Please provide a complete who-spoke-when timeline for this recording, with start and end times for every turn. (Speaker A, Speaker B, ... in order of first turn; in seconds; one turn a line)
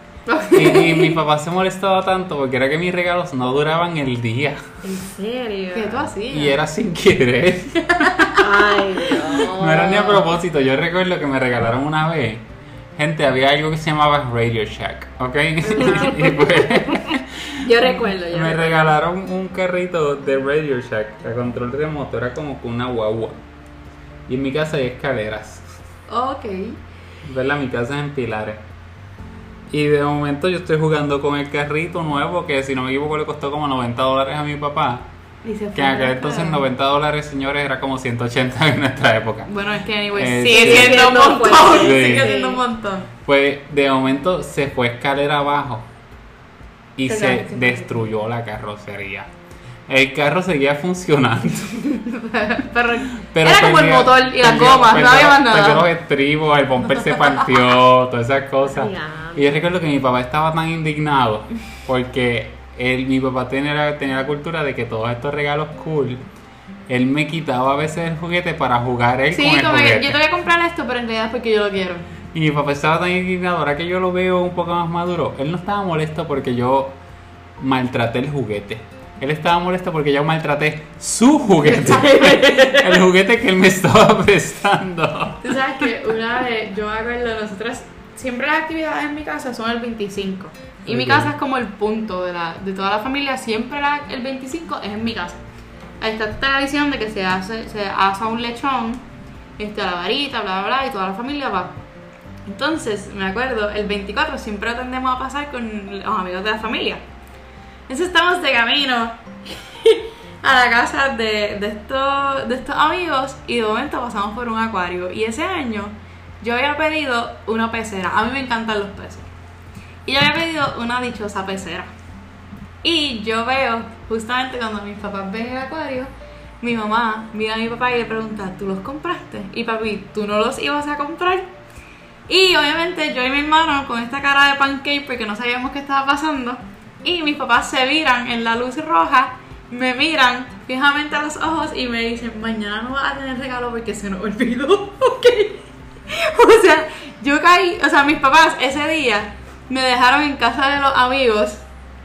Speaker A: 0.2-1.2
Speaker B: 0.5-4.6
Speaker C: 4.8-6.0
Speaker A: 5.7-6.6
Speaker B: 6.3-8.3
Speaker C: 8.4-10.3
Speaker B: 9.3-23.4
Speaker A: 15.6-16.4
Speaker C: 15.8-18.9
Speaker B: 24.3-25.7
Speaker A: 26.1-26.8
Speaker B: 27.2-28.6
Speaker B: 29.7-35.1
Speaker A: 35.4-36.6
Speaker B: 35.7-39.5
Speaker A: 39.5-43.1
Speaker B: 40.1-42.3
Speaker C: 40.4-42.6
Speaker B: 43.2-45.9
Speaker B: 47.0-49.3
Speaker A: 47.0-47.9
Speaker B: 49.9-51.8
Speaker A: 51.8-55.9
Speaker B: 53.2-66.2
Speaker A: 57.0-57.5
Speaker C: 58.7-59.5
Speaker B: 66.9-70.2
Speaker A: 69.3-72.0
Speaker B: 72.3-77.0
Speaker B: 77.6-85.5
Speaker C: 81.9-82.9
Speaker A: 85.4-95.4
Speaker B: 90.8-91.3
Speaker A: 96.0-99.0
Speaker A: 99.6-101.8
Speaker A: 102.5-107.0
Speaker A: 107.9-109.2
Speaker A: 109.8-119.3
Speaker A: 120.0-121.9
Speaker A: 122.8-126.1
Speaker A: 126.6-131.5
Speaker A: 132.3-151.6